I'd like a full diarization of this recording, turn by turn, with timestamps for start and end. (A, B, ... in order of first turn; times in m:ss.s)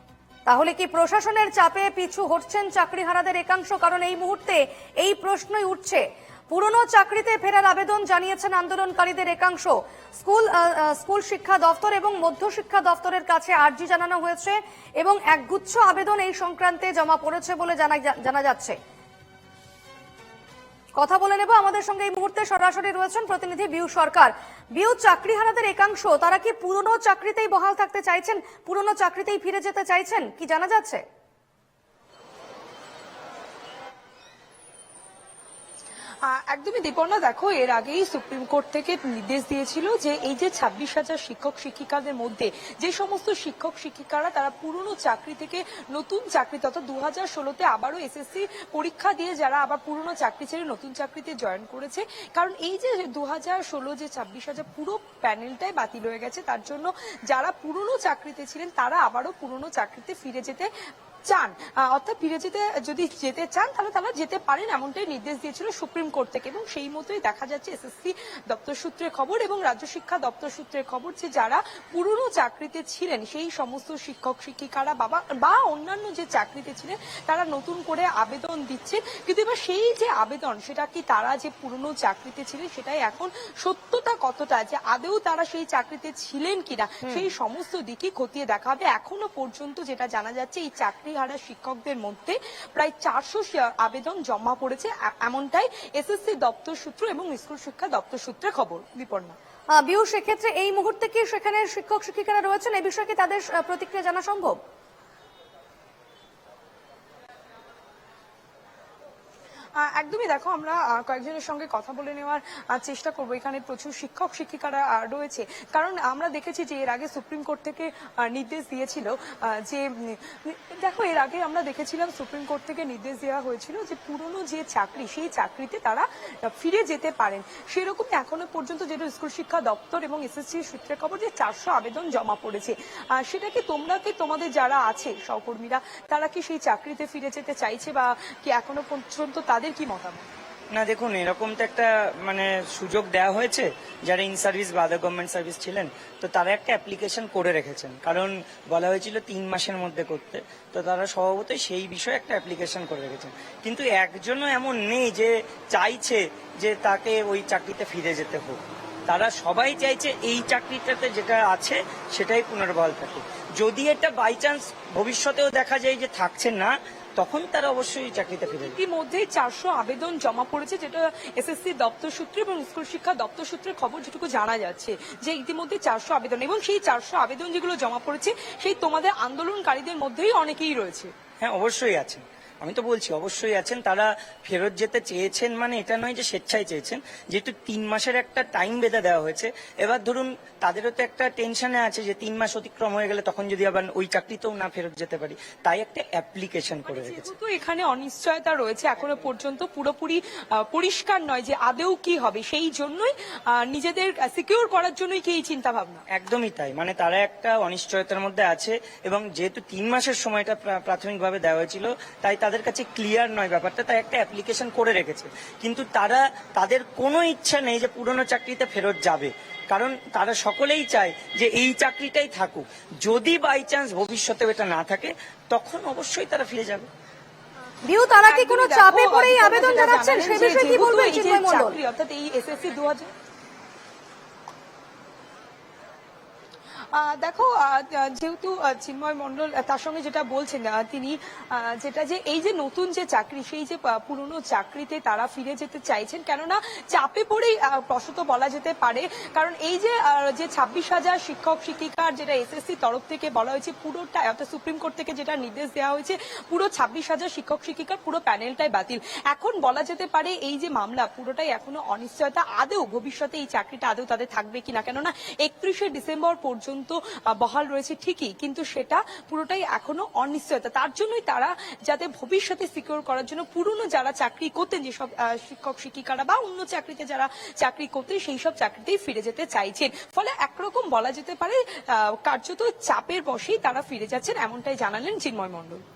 0:00.5-0:18.8 A
0:21.0-0:31.0 A
0:36.2-1:00.7 B
1:01.2-1:39.4 B
1:39.7-1:44.6 A
1:49.8-2:20.3 B
2:20.7-2:48.8 C
2:48.5-3:01.1 B
3:01.4-3:17.3 C
3:16.9-3:26.0 B
3:26.1-3:46.9 C
3:47.9-3:51.8 A
3:48.2-3:53.1 B
3:56.9-4:45.8 B